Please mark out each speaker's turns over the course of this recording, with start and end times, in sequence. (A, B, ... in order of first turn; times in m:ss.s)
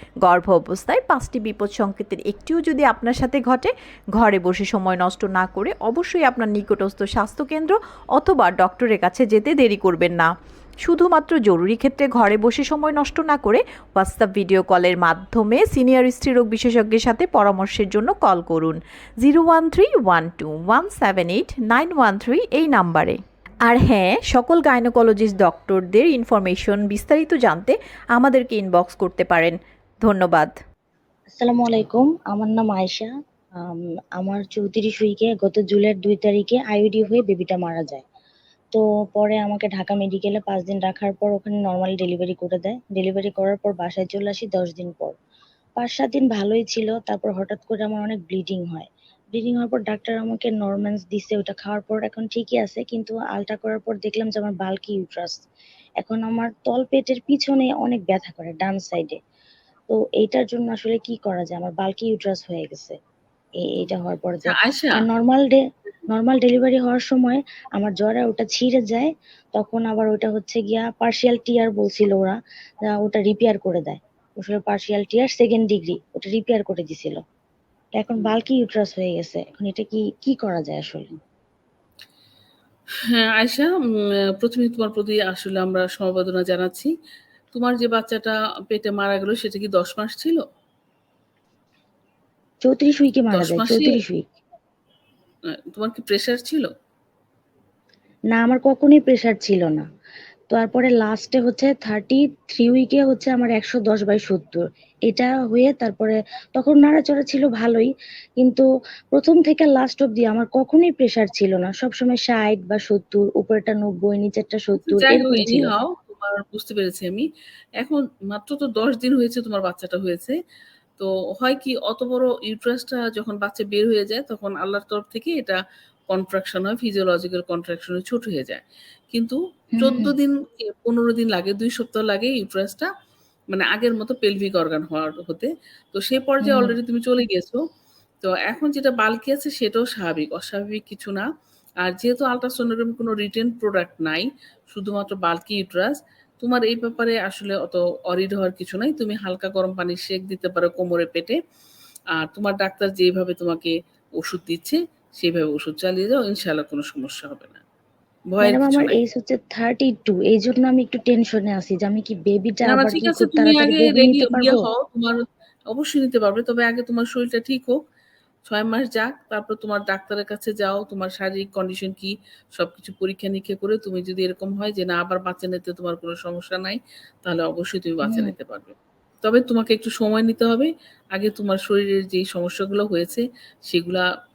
0:00.2-0:10.3 A
0:10.8-0:30.5 A
0:31.4-0:33.1 B
0:33.6-0:38.0 B
0:38.7-0:45.1 B
0:45.8-0:55.4 B
0:56.0-0:59.2 B
0:59.9-1:02.9 B
1:03.6-1:12.4 B
1:04.4-1:05.0 C
1:12.9-1:17.2 B
1:18.0-1:21.1 B
1:23.1-1:23.7 C
1:24.4-1:26.9 C
1:27.5-1:30.4 C
1:32.6-1:34.2 B
1:33.3-1:34.0 C
1:35.7-1:36.7 C
1:38.3-1:39.8 B
1:40.5-1:55.7 B
1:54.8-1:57.3 C
1:57.8-2:00.4 C
2:01.0-2:05.6 C
2:06.1-2:12.9 C
2:09.8-2:10.1 B
2:13.5-2:17.6 C
2:16.4-2:16.7 B
2:18.2-2:21.3 C
2:21.8-2:31.4 C
2:32.2-2:37.6 C
2:38.3-2:39.0 C
2:38.4-2:44.6 B
2:42.6-2:47.8 C
2:48.4-3:04.0 C
2:58.0-2:58.3 B